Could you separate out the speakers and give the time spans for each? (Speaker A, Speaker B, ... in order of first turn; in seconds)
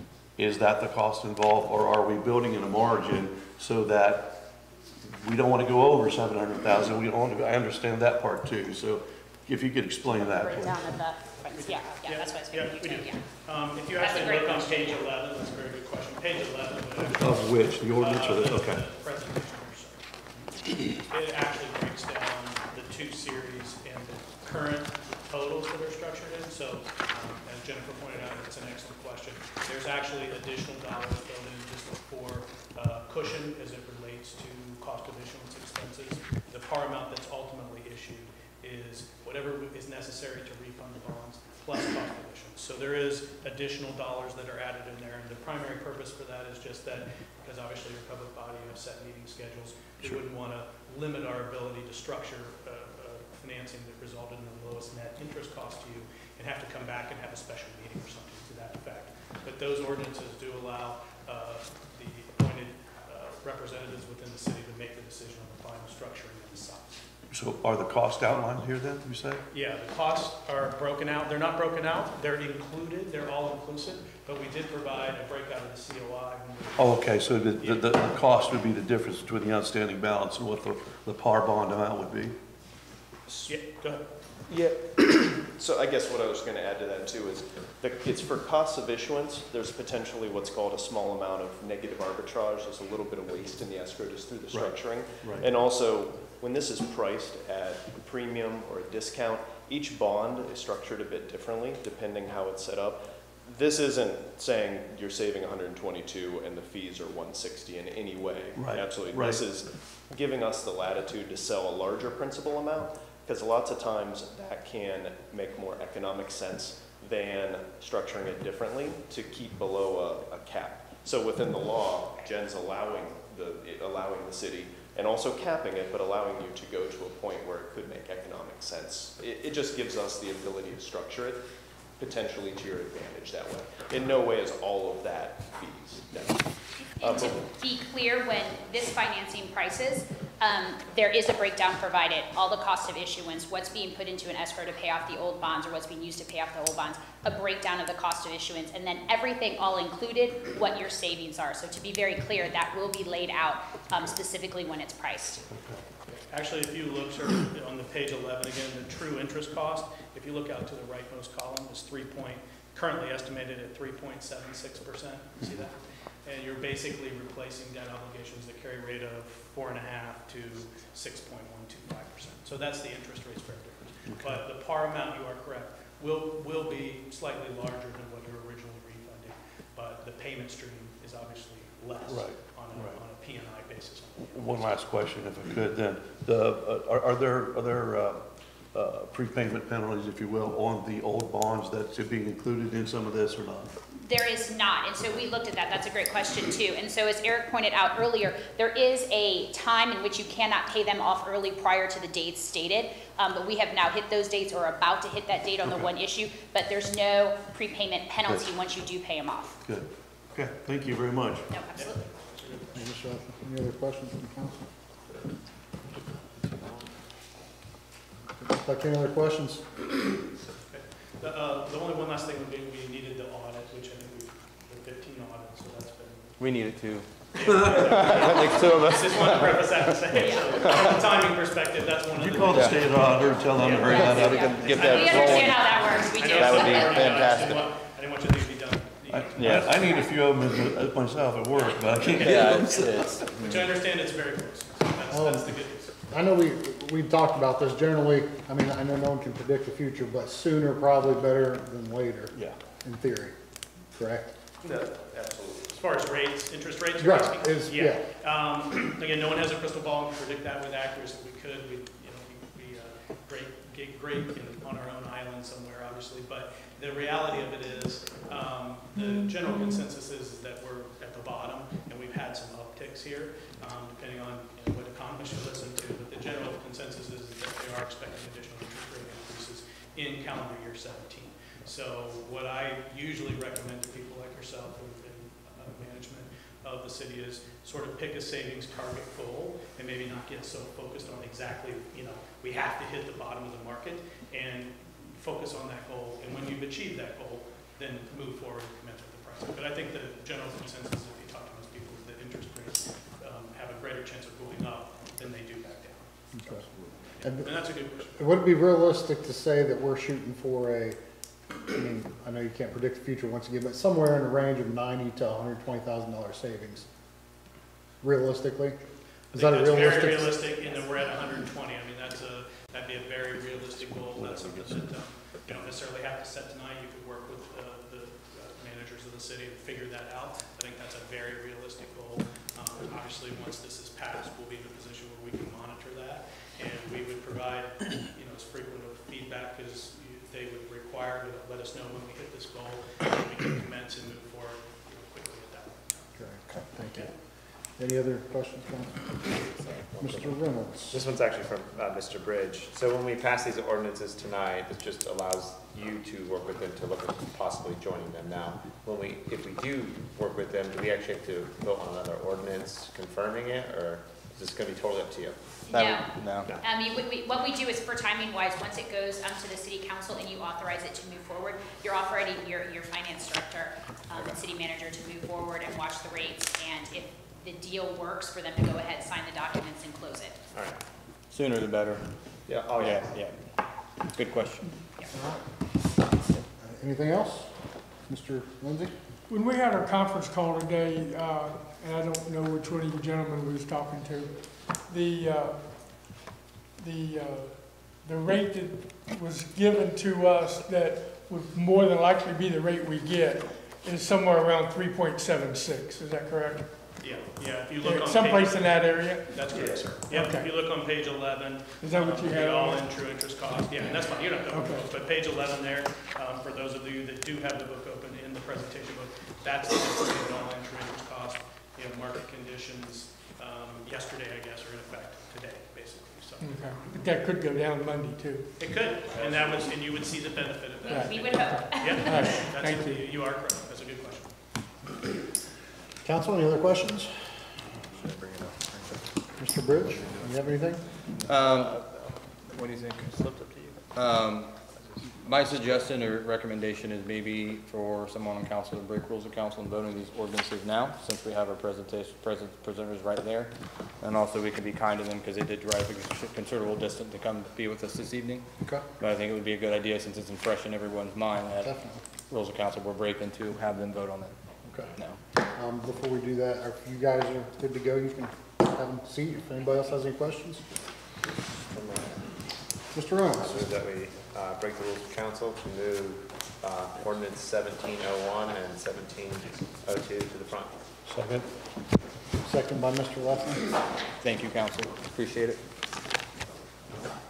Speaker A: 0.4-4.5, 5.0-10.9, 17.2-18.9, 67.3-69.4, 76.8-82.4, 94.5-95.5, 108.5-109.4, 174.1-174.4, 182.1-183.0, 184.3-193.8, 209.6-211.5, 227.5-227.9, 232.1-234.8, 239.1-243.1, 323.7-324.9, 325.5-325.8, 409.5-410.0, 481.1-481.5
Speaker B: 10.4-13.2, 14.0-15.0, 137.0-155.4, 194.0-209.6, 211.5-212.0, 230.1-230.6, 234.2-237.2, 365.7-380.4, 430.8-432.2
Speaker C: 11.4-20.1, 21.1-67.0, 69.5-78.1, 83.3-84.1, 156.1-184.4, 211.8-212.9, 220.7-226.3, 227.3-240.1, 242.2-245.9, 254.6-306.0, 307.2-308.1, 319.3-346.1, 407.0-426.9, 428.6-434.3
Speaker D: 84.5-131.4, 132.0-137.4
Speaker E: 212.8-214.6, 218.4-219.7, 245.1-253.3, 253.9-254.3, 257.0-258.0, 306.3-306.6, 307.2-311.0, 311.7-316.9, 318.0-318.8, 319.3-320.5, 346.2-347.1, 347.8-349.2, 350.0-351.0, 386.6-387.5, 388.1-388.9, 436.0-437.3, 439.4-440.8, 461.6-462.0, 465.5-470.6, 472.9-473.8, 482.4-483.7
Speaker F: 226.4-231.0, 233.8-235.7, 236.2-237.7, 239.3-239.7, 242.2-243.7, 365.7-366.5, 381.3-382.1, 382.8-383.4, 384.1-384.7, 438.0-439.0, 441.2-441.9, 442.5-458.4, 459.0-461.7, 462.3-464.3, 484.2-485.6
Speaker G: 269.0-269.8, 389.3-396.2, 396.8-407.0, 407.8-409.4, 410.1-410.5, 411.8-412.9, 414.5-414.9, 426.4-428.5, 430.9-433.1
Speaker H: 349.3-350.4, 350.9-365.4, 380.5-380.8, 382.5-383.0, 471.7-472.2, 473.3-480.8